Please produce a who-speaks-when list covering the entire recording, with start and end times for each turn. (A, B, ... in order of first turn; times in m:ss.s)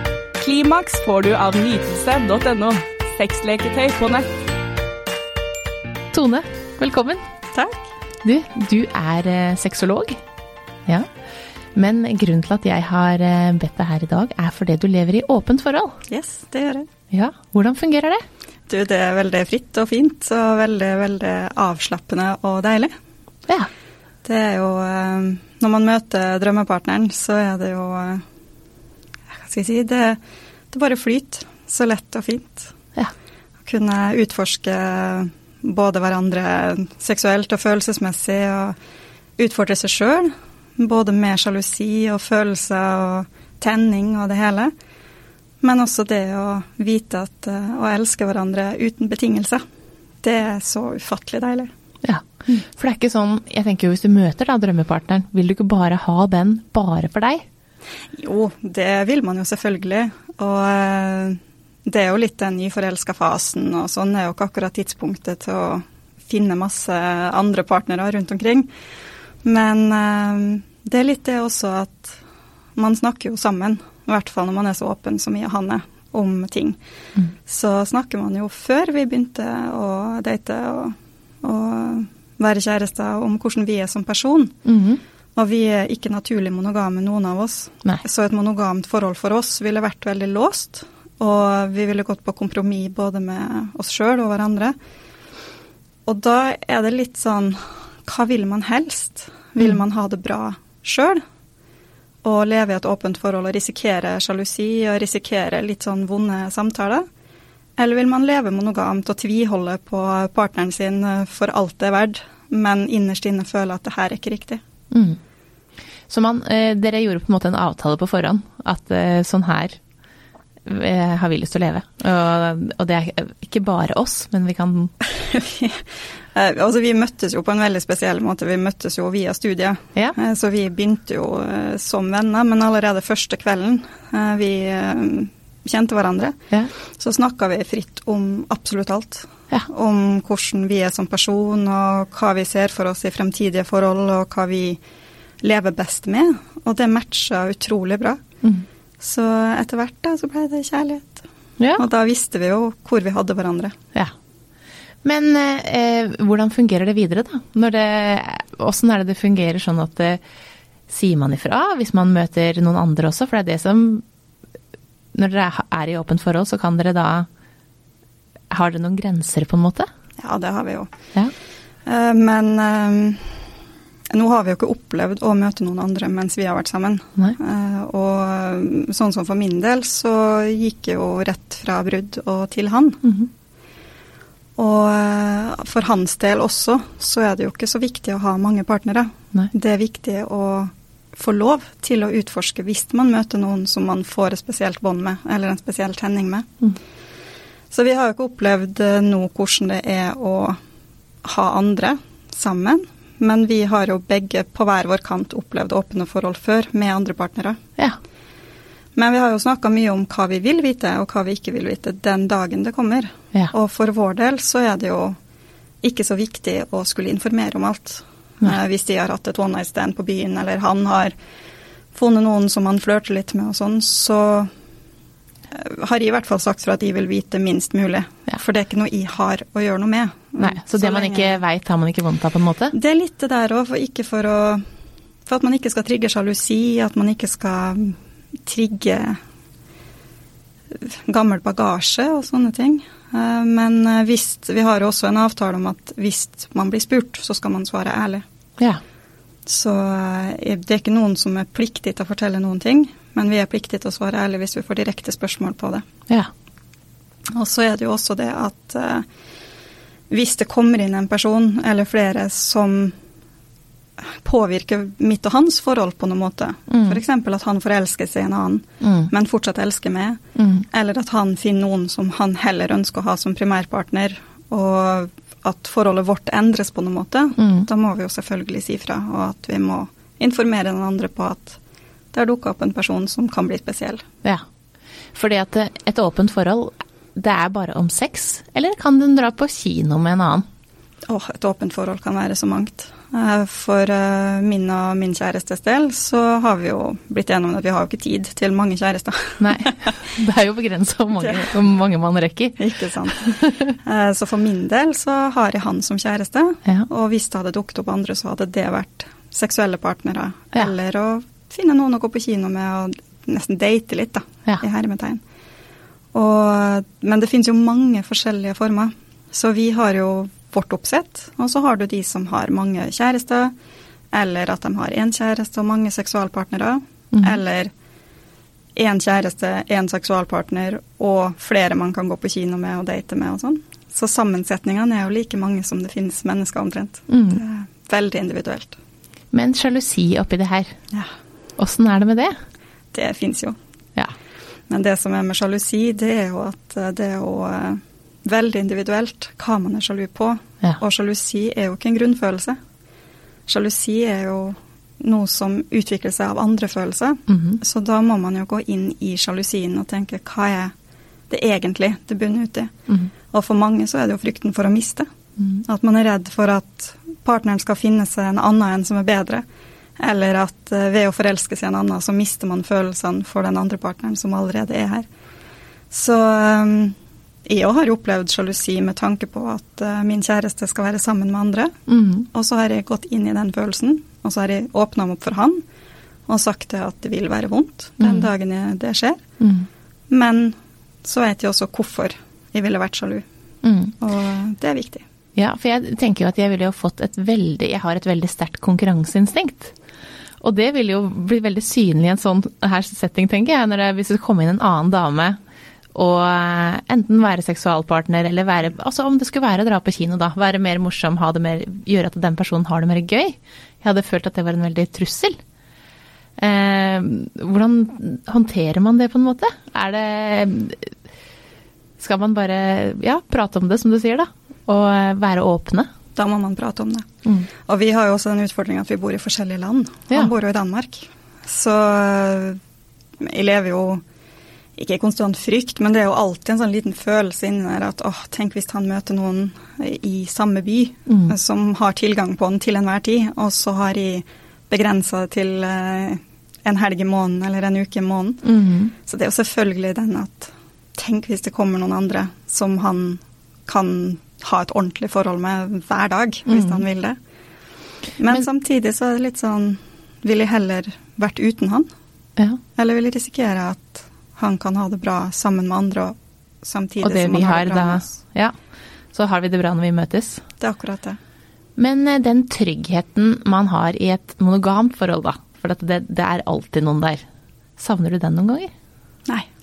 0:00.4-0:04.3 A
0:06.1-0:07.2 B
0:07.5-0:07.9 C
0:08.2-0:10.2 B
0:11.8-0:16.0 B
0:16.1-0:16.9 C
0:17.1-0:18.2 B
0:18.7-0:22.9 C
0:24.2-0:28.2 C
0:29.4-0:30.2 C
0:30.7-0:32.7 C
0:33.7-0:38.8 C
0:39.4-0:44.7 C
0:45.6-0:49.6 C
0:50.2-0:51.7 C
0:52.0-0:57.4 B
0:58.2-1:08.7 C
1:09.4-1:12.2 C
1:12.8-1:16.8 C
1:17.5-1:24.6 C
1:24.6-1:25.0 B
1:25.4-1:34.8 C
1:36.1-1:41.2 C
1:42.2-1:47.1 C
1:47.8-1:54.6 C
1:54.9-1:55.2 B
1:56.1-1:59.8 B
2:00.6-2:04.9 B
2:05.2-2:05.8 C
2:06.3-2:16.4 C
2:17.0-2:24.8 C
2:25.4-2:28.2 C
2:29.0-2:31.2 C
2:31.6-2:31.8 B
2:31.8-2:33.8 C
2:35.0-2:40.2 B
2:40.9-2:44.0 B
2:45.1-2:47.3 B
2:48.5-2:49.9 B
2:50.2-2:50.9 C
2:51.9-2:53.4 C
2:54.1-3:03.1 C
3:04.6-3:16.5 C
3:17.7-3:20.6 C
3:21.2-3:27.6 C
3:29.0-3:35.2 C
3:35.8-3:41.1 C
3:41.9-3:44.5 C
3:45.5-3:51.4 C
3:50.4-3:52.8 B
3:52.7-3:54.6 C
3:55.3-3:59.2 C
4:00.8-4:08.2 C
4:09.5-4:15.9 C
4:17.3-4:19.0 C
4:20.1-4:23.0 C
4:24.2-4:41.6 C
4:26.7-4:27.0 B
4:28.8-4:29.1 B
4:30.4-4:30.6 B
4:37.4-4:37.7 B
4:42.1-4:44.0 C
4:45.1-4:50.5 B
4:51.1-5:00.0 C
4:59.4-5:03.7 B
5:01.2-5:01.5 C
5:02.6-5:15.2 C
5:16.1-5:23.5 C
5:24.1-5:27.7 C
5:27.1-5:27.4 B
5:28.8-5:38.8 C
5:37.1-5:37.4 B
5:39.3-5:40.7 B
5:41.6-5:42.4 B
5:42.9-5:43.6 C
5:44.7-5:52.6 C
5:53.5-6:00.7 C
5:57.3-5:57.6 B
6:01.3-6:02.7 C
6:03.3-6:05.1 C
6:05.6-6:09.4 C
6:10.0-6:15.1 C
6:15.9-6:17.0 C
6:17.5-6:21.8 C
6:21.9-6:22.3 B
6:22.3-6:25.6 C
6:26.3-6:29.2 C
6:28.0-6:28.3 B
6:29.4-6:29.7 B
6:30.1-6:33.2 C
6:33.6-6:33.9 B
6:34.0-6:35.0 C
6:35.4-6:39.7 B
6:40.4-6:45.4 B
6:45.9-6:55.4 B
6:56.4-7:00.9 B
7:02.0-7:05.9 B
7:06.2-7:07.1 C
7:07.7-7:12.6 C
7:13.2-7:14.0 C
7:14.8-7:37.2 C
7:21.1-7:21.3 B
7:28.4-7:28.9 B
7:36.5-7:36.8 B
7:38.2-7:41.9 C
7:42.8-7:48.2 C
7:47.0-7:48.6 B
7:49.1-7:50.4 B
7:50.6-7:51.2 C
7:51.8-7:57.2 B
7:57.8-7:58.7 B